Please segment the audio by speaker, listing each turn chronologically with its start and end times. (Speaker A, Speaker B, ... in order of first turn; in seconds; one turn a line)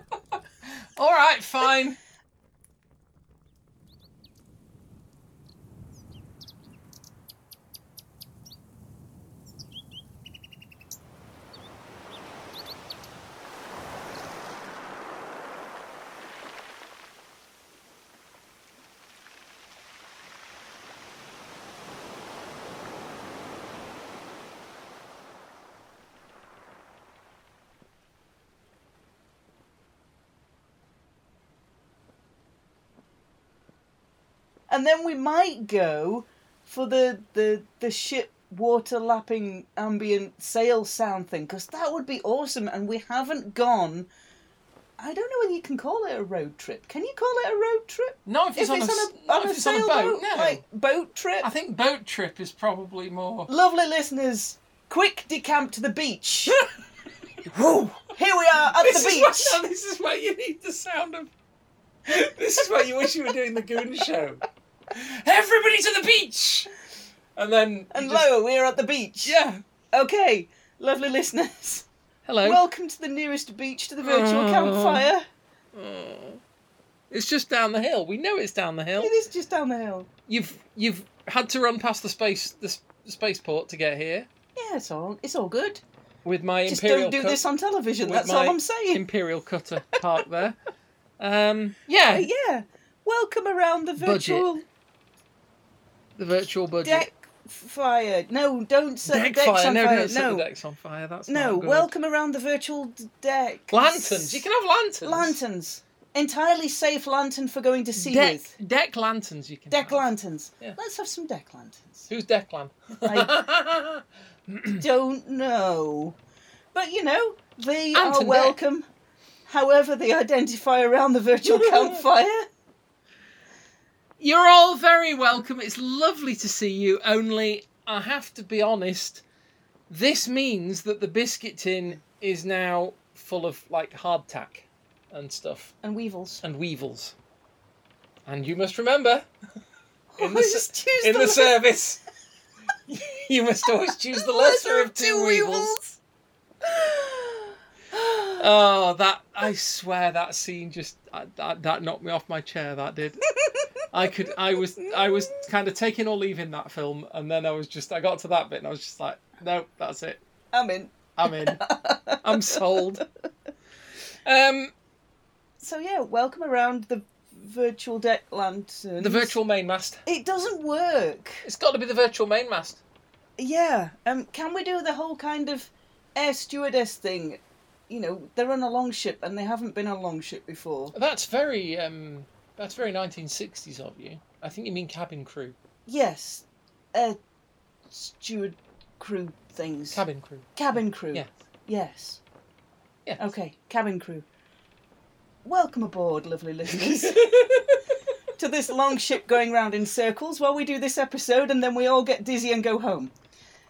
Speaker A: 0.7-2.0
Speaker B: 34.7-44.1
Speaker B: 45.0-51.5
Speaker A: 48.2-50.6
Speaker A: 51.4-53.5
Speaker B: 53.5-56.6
Speaker A: 57.5-57.9
Speaker B: 57.8-59.6
Speaker A: 58.6-61.3
Speaker A: 62.0-66.7
Speaker A: 67.3-68.3
Speaker B: 67.9-69.4
Speaker A: 69.2-69.6
Speaker B: 69.9-71.9
Speaker A: 72.2-72.6
Speaker B: 72.4-75.2
Speaker A: 74.0-75.1
Speaker A: 75.7-76.4
Speaker A: 77.1-79.1
Speaker B: 79.0-80.1
Speaker A: 80.3-84.3
Speaker B: 84.5-85.8
Speaker A: 86.2-87.4
Speaker B: 86.7-89.0
Speaker A: 88.0-90.6
Speaker A: 91.2-92.3
Speaker B: 92.1-94.6
Speaker A: 94.0-94.5
Speaker A: 96.2-97.1
Speaker B: 96.8-100.5
Speaker A: 99.0-101.9
Speaker B: 101.3-104.5
Speaker A: 103.7-105.4
Speaker B: 105.0-108.5
Speaker A: 108.0-110.0
Speaker B: 109.7-112.1
Speaker A: 112.1-114.8
Speaker B: 113.0-113.4
Speaker B: 114.8-116.2
Speaker B: 116.7-118.8
Speaker A: 117.9-118.6
Speaker B: 119.5-122.5
Speaker A: 121.5-122.0
Speaker A: 124.2-129.2
Speaker A: 129.9-135.7
Speaker B: 135.8-136.4
Speaker A: 136.4-137.1
Speaker A: 138.2-139.3
Speaker B: 140.1-141.6
Speaker A: 140.2-142.0
Speaker A: 142.9-145.8
Speaker B: 144.1-146.0
Speaker B: 146.6-148.4
Speaker A: 148.4-153.2
Speaker B: 153.4-153.6
Speaker A: 153.9-160.2
Speaker B: 154.7-155.4
Speaker B: 160.5-163.0
Speaker A: 161.2-161.6
Speaker A: 162.2-163.0
Speaker A: 164.2-164.7
Speaker B: 165.6-169.3
Speaker A: 169.0-170.0
Speaker B: 170.1-171.4
Speaker A: 171.4-172.8
Speaker B: 173.4-180.9
Speaker A: 180.9-185.6
Speaker B: 185.9-187.2
Speaker B: 187.9-190.0
Speaker A: 189.9-190.5
Speaker B: 190.5-192.2
Speaker B: 193.2-194.2
Speaker B: 195.4-197.4
Speaker A: 196.7-197.8
Speaker B: 198.4-203.1